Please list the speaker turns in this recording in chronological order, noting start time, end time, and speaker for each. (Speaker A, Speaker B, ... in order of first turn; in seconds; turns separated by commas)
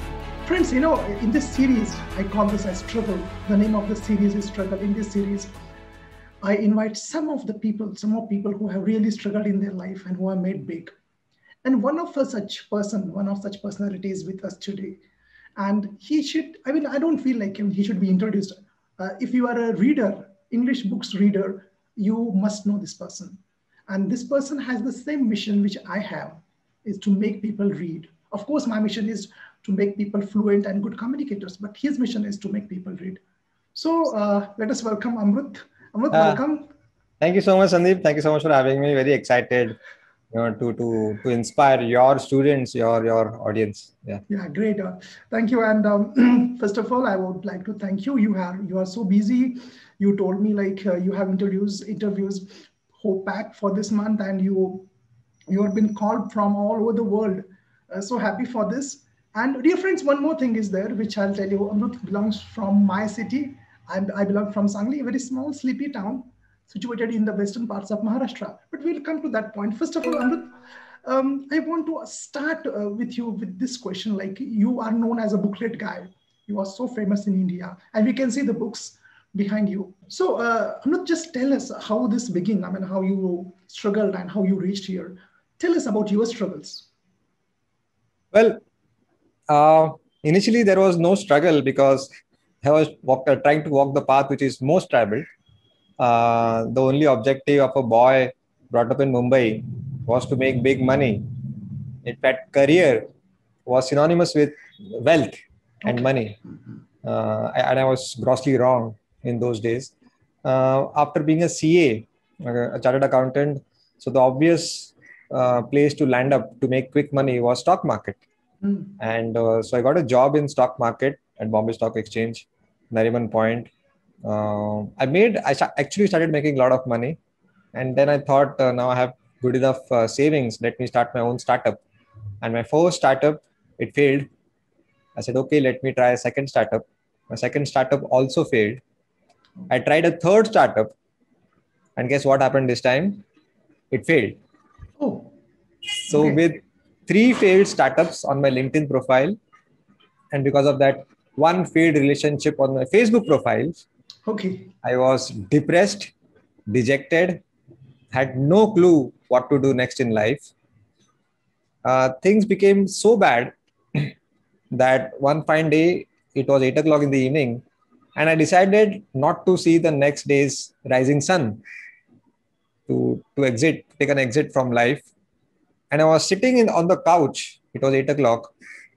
Speaker A: 0.4-5.5, Speaker A: 6.4-10.9, Speaker A: 11.6-15.0, Speaker A: 15.6-33.2, Speaker A: 33.7-36.7, Speaker B: 36.1-36.4, Speaker B: 37.2-39.8, Speaker B: 40.3-44.2, Speaker A: 44.3-54.9, Speaker A: 55.5-70.5, Speaker A: 71.0-86.9, Speaker B: 88.3-88.6, Speaker B: 89.5-92.1, Speaker B: 92.6-95.2, Speaker B: 96.0-103.1, Speaker B: 103.7-106.4, Speaker A: 105.8-106.5, Speaker B: 107.0-109.9, Speaker B: 110.4-118.2, Speaker A: 118.6-119.0, Speaker B: 119.0-123.7, Speaker B: 124.2-127.2, Speaker B: 127.7-131.8, Speaker B: 132.4-134.3, Speaker B: 135.2-138.8, Speaker B: 139.7-140.9, Speaker B: 141.9-143.2, Speaker B: 143.9-144.4, Speaker A: 145.0-145.3, Speaker A: 146.1-146.4, Speaker B: 146.1-149.4, Speaker B: 150.3-153.8, Speaker A: 154.2-154.7, Speaker B: 154.8-156.1, Speaker B: 156.7-157.4, Speaker B: 158.1-160.5, Speaker B: 161.8-164.1, Speaker B: 164.7-167.6, Speaker B: 168.2-171.6, Speaker B: 172.9-175.1, Speaker B: 175.9-178.5